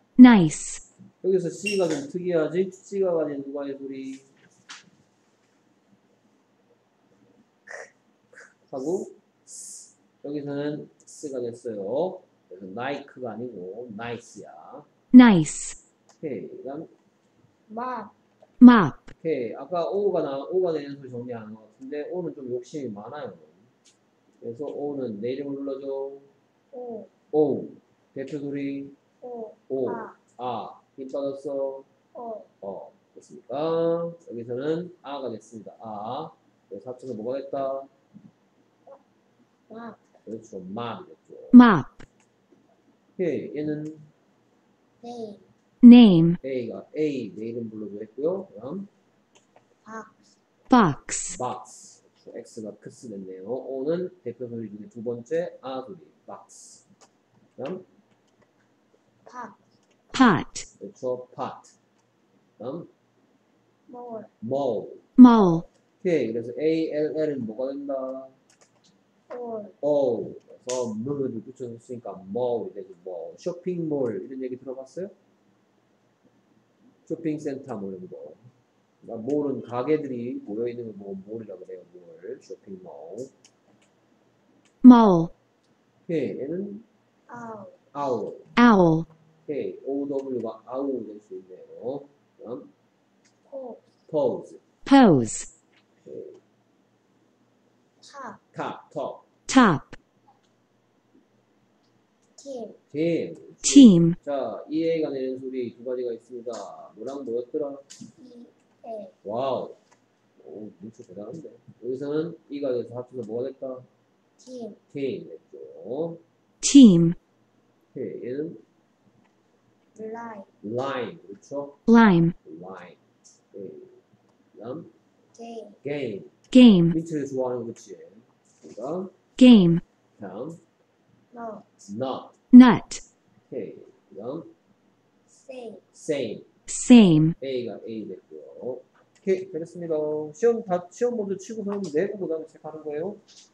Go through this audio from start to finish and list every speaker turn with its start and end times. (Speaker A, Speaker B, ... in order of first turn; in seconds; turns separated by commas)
Speaker A: 0.2-0.8, Speaker B: 1.2-4.3, Speaker B: 8.7-14.9, Speaker A: 15.1-15.8, Speaker B: 16.2-16.9, Speaker C: 17.7-18.1, Speaker A: 18.6-19.1, Speaker B: 19.2-23.7, Speaker B: 24.4-26.3, Speaker C: 26.7-27.1, Speaker B: 27.3-29.0, Speaker C: 29.2-30.2, Speaker B: 29.7-31.9, Speaker C: 32.1-32.5, Speaker B: 32.6-37.9, Speaker C: 39.7-40.0, Speaker B: 40.3-41.6, Speaker A: 41.5-42.0, Speaker B: 43.2-44.1, Speaker C: 45.0-45.5, Speaker A: 45.8-46.4, Speaker B: 46.4-48.9, Speaker C: 49.8-50.4, Speaker A: 50.7-51.4, Speaker B: 51.3-56.9, Speaker B: 57.6-57.9, Speaker C: 59.2-59.6, Speaker A: 60.1-60.7, Speaker B: 60.8-61.7, Speaker B: 62.6-62.9, Speaker C: 63.9-64.3, Speaker B: 64.4-65.0, Speaker A: 65.2-65.7, Speaker B: 66.0-68.3, Speaker C: 69.3-69.8, Speaker B: 69.8-75.1, Speaker B: 77.1-78.4, Speaker B: 79.0-83.3, Speaker A: 84.8-85.3, Speaker B: 86.1-86.9, Speaker C: 87.3-87.9, Speaker B: 87.9-88.5, Speaker A: 88.6-89.1, Speaker B: 89.5-92.7, Speaker C: 93.5-93.9, Speaker B: 94.1-94.6, Speaker A: 94.8-95.5, Speaker B: 96.0-96.4, Speaker C: 98.0-98.4, Speaker B: 98.5-99.3, Speaker A: 99.5-100.0, Speaker C: 102.4-102.8, Speaker B: 102.9-107.9, Speaker A: 103.7-104.2, Speaker C: 108.2-109.1, Speaker B: 109.2-109.8, Speaker B: 110.4-113.9, Speaker C: 114.4-114.8, Speaker B: 114.9-116.2, Speaker A: 116.6-117.2, Speaker B: 117.9-118.6, Speaker C: 120.0-120.5, Speaker B: 120.6-121.8, Speaker A: 121.9-122.3, Speaker B: 122.4-123.0, Speaker B: 123.5-124.0, Speaker B: 124.5-124.9, Speaker C: 125.3-125.8, Speaker B: 125.8-126.4, Speaker A: 126.5-127.0, Speaker B: 126.9-129.2, Speaker A: 129.4-129.8, Speaker B: 130.2-130.6, Speaker C: 131.3-131.8, Speaker B: 131.9-132.4, Speaker A: 132.5-133.0, Speaker B: 133.5-134.5, Speaker C: 135.3-135.9, Speaker B: 135.9-136.5, Speaker A: 136.7-137.4, Speaker B: 137.4-143.2